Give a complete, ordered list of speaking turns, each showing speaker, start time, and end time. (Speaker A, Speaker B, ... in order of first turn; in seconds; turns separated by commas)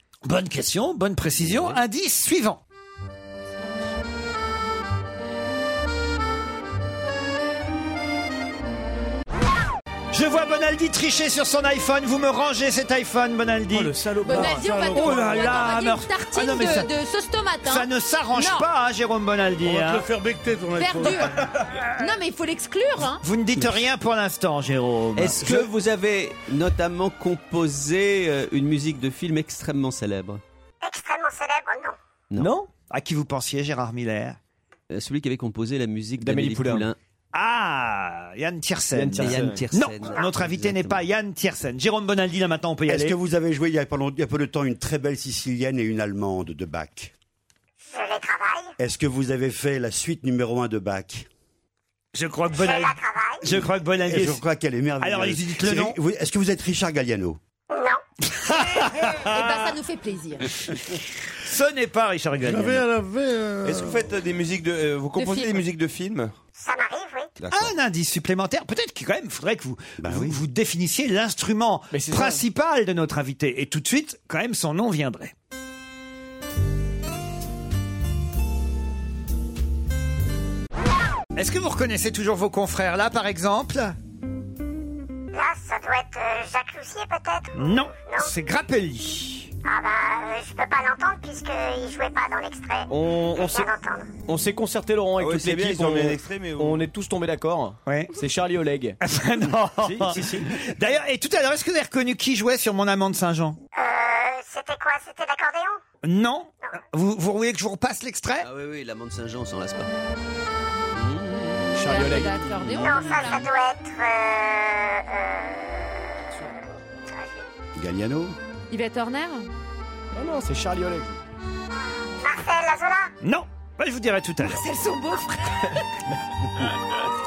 Speaker A: 0.2-2.6, Speaker A: 10.1-13.9, Speaker B: 13.7-14.6, Speaker C: 14.2-18.7, Speaker D: 14.2-15.6, Speaker A: 14.5-16.9, Speaker A: 17.6-20.0, Speaker D: 19.6-21.4, Speaker C: 20.8-23.2, Speaker A: 23.2-25.7, Speaker E: 25.2-30.4, Speaker F: 30.8-31.9, Speaker B: 32.3-32.7, Speaker A: 32.9-34.4, Speaker E: 34.9-37.0, Speaker B: 36.2-36.9, Speaker A: 37.3-43.1, Speaker B: 38.9-39.6, Speaker E: 39.1-41.0, Speaker G: 42.9-47.1, Speaker F: 47.8-48.7, Speaker G: 48.8-51.3, Speaker A: 52.1-54.4, Speaker F: 52.5-53.4, Speaker G: 54.0-57.4, Speaker A: 55.0-56.0, Speaker F: 57.7-58.0, Speaker A: 58.3-59.7, Speaker C: 59.1-60.6, Speaker A: 61.4-62.8, Speaker D: 62.4-64.0, Speaker H: 63.6-66.3, Speaker C: 65.1-65.6, Speaker F: 66.5-67.4, Speaker H: 67.4-67.7, Speaker A: 67.5-75.3, Speaker G: 70.0-70.4, Speaker B: 71.9-72.4, Speaker A: 81.3-83.9, Speaker F: 85.3-88.3, Speaker A: 87.5-89.5, Speaker F: 89.6-94.2, Speaker B: 92.9-93.7, Speaker B: 94.2-99.0, Speaker H: 95.2-96.9, Speaker A: 97.8-98.1, Speaker A: 99.0-103.6, Speaker B: 99.8-100.5, Speaker F: 103.7-105.8, Speaker A: 106.0-108.5, Speaker E: 108.4-109.9, Speaker E: 110.9-112.3, Speaker C: 111.7-113.5, Speaker B: 111.8-112.7, Speaker F: 112.7-117.4, Speaker G: 117.7-118.3, Speaker C: 118.7-119.5, Speaker B: 120.1-121.2, Speaker F: 122.1-123.1, Speaker A: 123.2-124.6, Speaker C: 124.4-125.8